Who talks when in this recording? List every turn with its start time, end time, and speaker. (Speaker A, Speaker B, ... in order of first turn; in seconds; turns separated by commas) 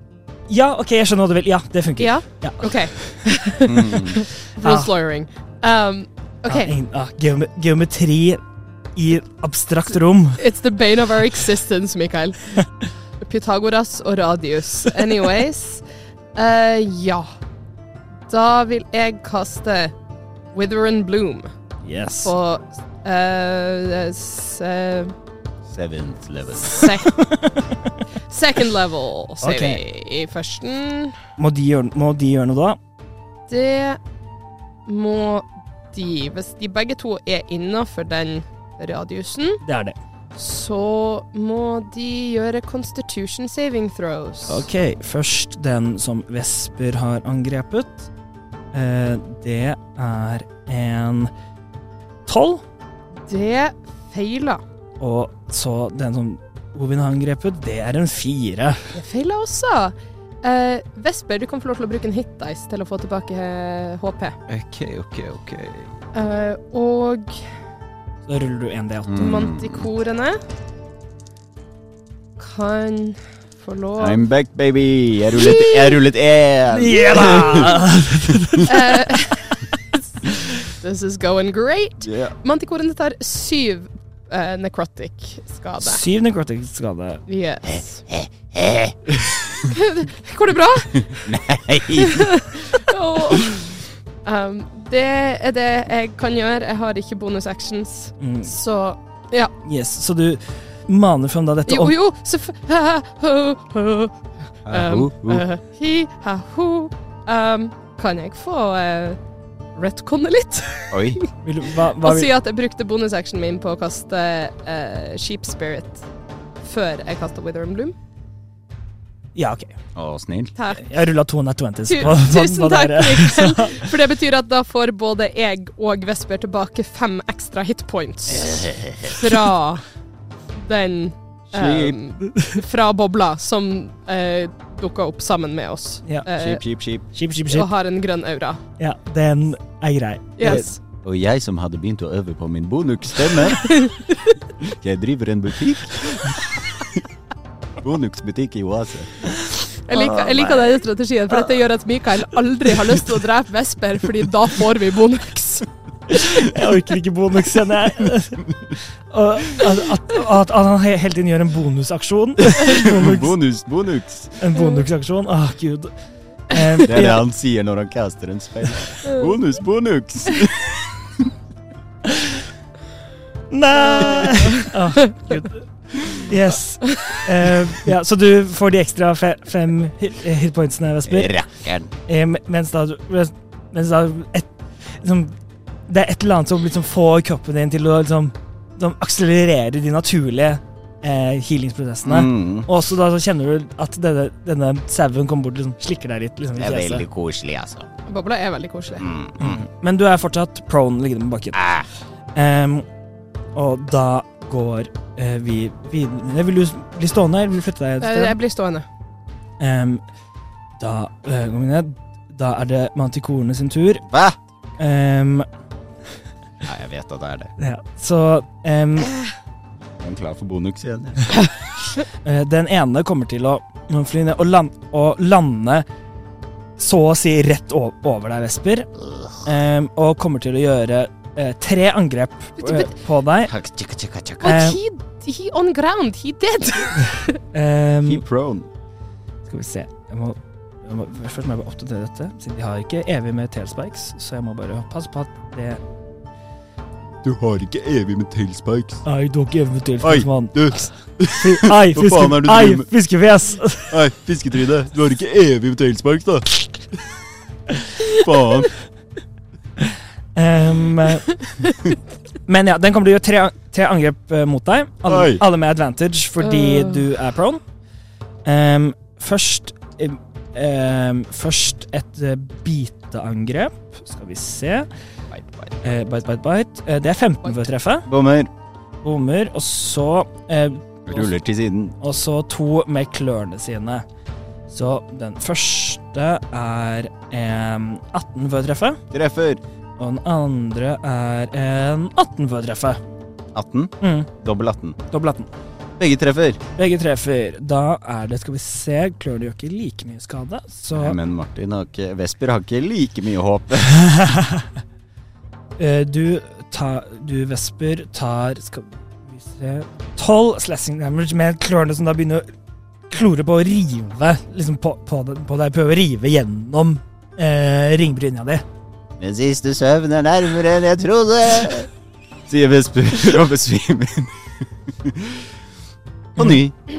Speaker A: 0.5-3.2, Speaker B: 2.0-6.7, Speaker C: 3.7-4.2, Speaker A: 4.2-4.9, Speaker A: 6.5-8.4, Speaker A: 9.0-10.4, Speaker B: 10.4-12.7, Speaker B: 13.2-15.8, Speaker B: 16.4-17.3, Speaker B: 18.3-19.9, Speaker B: 20.5-21.5, Speaker A: 21.8-22.3, Speaker B: 22.2-25.1, Speaker C: 25.7-26.9, Speaker B: 26.6-27.3, Speaker A: 27.2-28.0, Speaker B: 28.3-31.2, Speaker A: 29.4-29.8, Speaker A: 31.4-32.8, Speaker B: 33.5-34.0, Speaker B: 34.9-39.6, Speaker A: 39.6-40.0, Speaker B: 40.4-44.7, Speaker A: 44.5-48.1, Speaker A: 48.7-51.3, Speaker A: 52.3-52.6, Speaker B: 53.3-54.6, Speaker A: 55.0-58.9, Speaker B: 58.9-64.4, Speaker C: 64.5-65.9, Speaker B: 66.1-67.4, Speaker A: 68.3-69.2, Speaker C: 69.1-69.9, Speaker B: 69.2-70.4, Speaker B: 72.4-74.2, Speaker C: 74.0-78.7, Speaker B: 75.3-76.0, Speaker A: 76.7-78.9, Speaker B: 77.2-77.7, Speaker B: 78.6-79.7, Speaker B: 80.6-86.0, Speaker C: 82.0-82.3, Speaker A: 85.8-87.2, Speaker B: 87.3-88.0, Speaker C: 88.1-89.5, Speaker B: 89.6-91.3, Speaker C: 91.0-92.5, Speaker B: 92.0-99.5, Speaker A: 98.2-98.5, Speaker A: 99.6-102.0, Speaker B: 101.7-104.1, Speaker C: 104.7-105.5, Speaker B: 104.7-109.2, Speaker B: 109.8-111.3, Speaker C: 110.9-111.2, Speaker A: 111.4-112.3, Speaker B: 112.0-116.0, Speaker B: 116.6-118.0, Speaker A: 119.3-119.8, Speaker C: 120.0-120.5, Speaker B: 120.6-120.9, Speaker A: 120.8-123.9, Speaker B: 121.9-129.8, Speaker C: 128.3-129.2, Speaker B: 130.6-136.6, Speaker C: 131.5-132.0, Speaker A: 132.2-132.5, Speaker C: 136.3-137.0, Speaker A: 137.1-137.7, Speaker B: 137.5-138.6, Speaker A: 138.8-140.8, Speaker B: 140.4-140.8, Speaker C: 140.4-143.8, Speaker B: 143.6-144.0, Speaker C: 144.6-146.4, Speaker C: 147.8-149.1, Speaker B: 149.9-155.7, Speaker A: 149.9-150.8, Speaker A: 156.1-163.4, Speaker C: 162.6-164.4, Speaker A: 164.4-165.9, Speaker A: 166.5-167.2, Speaker C: 166.8-171.3, Speaker A: 172.1-172.3, Speaker A: 173.5-181.3, Speaker B: 173.8-174.7, Speaker C: 181.1-181.9, Speaker A: 182.1-184.5, Speaker A: 185.0-185.3, Speaker A: 185.9-197.1, Speaker C: 192.0-192.7, Speaker C: 196.6-197.9, Speaker B: 198.1-199.1, Speaker C: 199.0-199.6, Speaker A: 199.4-201.6, Speaker C: 201.5-201.9, Speaker A: 202.3-202.8, Speaker A: 203.6-208.4, Speaker B: 208.0-208.9, Speaker A: 209.6-210.0, Speaker A: 210.8-214.1, Speaker C: 214.1-214.4, Speaker A: 214.8-215.5, Speaker C: 216.6-217.5, Speaker A: 217.6-219.1, Speaker C: 219.9-221.4, Speaker A: 222.2-225.8, Speaker A: 226.8-228.9, Speaker A: 229.4-233.5, Speaker B: 232.6-232.9, Speaker C: 233.4-234.6, Speaker B: 234.4-237.4, Speaker A: 234.4-234.8, Speaker A: 237.5-238.2, Speaker C: 238.0-238.7, Speaker A: 239.5-245.8, Speaker C: 247.2-249.0, Speaker A: 249.1-254.0, Speaker C: 250.0-252.9, Speaker C: 253.9-256.8, Speaker C: 258.1-258.7, Speaker A: 260.4-261.4, Speaker A: 262.5-267.6, Speaker C: 265.1-265.4, Speaker B: 266.4-267.1, Speaker A: 268.4-274.9, Speaker C: 275.3-275.7, Speaker A: 275.8-278.1, Speaker C: 278.1-278.5, Speaker A: 279.0-281.3, Speaker C: 281.1-281.9, Speaker A: 282.0-284.1, Speaker A: 284.7-289.0, Speaker C: 289.1-289.6, Speaker A: 290.0-293.0, Speaker C: 293.5-295.0, Speaker A: 294.0-294.3, Speaker A: 295.1-295.5, Speaker C: 296.0-296.6, Speaker A: 296.8-301.2, Speaker C: 300.9-304.1, Speaker A: 304.0-304.6, Speaker A: 305.8-312.5, Speaker A: 313.1-318.6, Speaker C: 319.2-321.9, Speaker C: 322.5-325.5, Speaker C: 326.4-326.7